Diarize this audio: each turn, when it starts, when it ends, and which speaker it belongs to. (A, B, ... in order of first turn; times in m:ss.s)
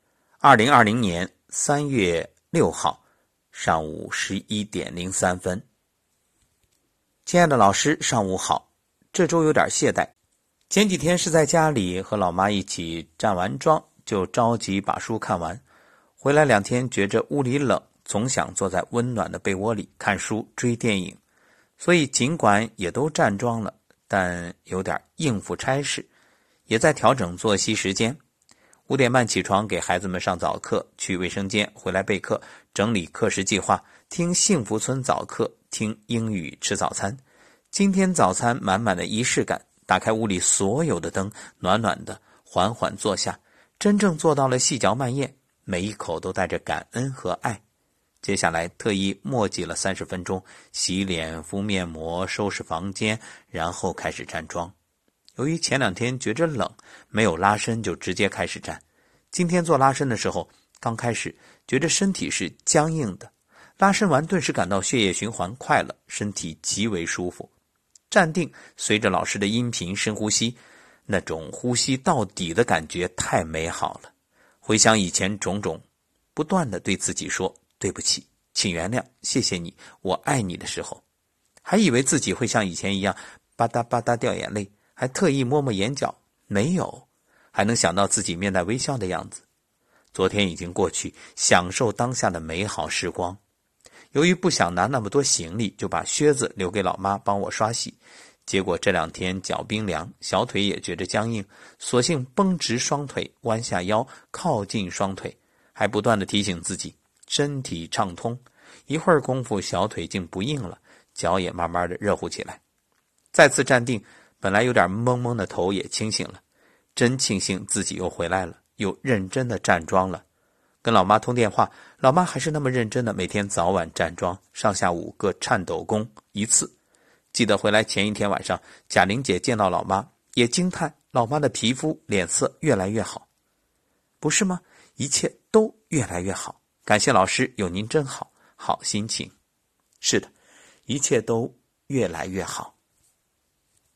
0:00.4-0:03.0 A
0:03.5-0:05.6 A
0:07.3-0:10.1 A
0:10.7-0:15.6 A
0:16.2-0:21.2 A
0:21.8-0:26.1 A
0:26.7-0:28.2 A
0:28.9-0:37.2 A
0:37.7-0:47.6 A
0:48.2-0:54.7 A
0:55.4-1:07.5 A
1:08.1-1:14.1 A
1:14.6-1:15.8 A
1:16.4-1:21.0 A
1:21.6-1:29.4 A
1:30.1-1:33.4 A
1:34.1-1:52.6 A
1:53.3-1:56.4 A
1:57.0-2:00.2 A
2:00.8-2:06.7 A
2:07.3-2:13.3 A
2:14.2-2:19.3 A
2:20.0-2:20.3 A
2:20.9-2:22.7 A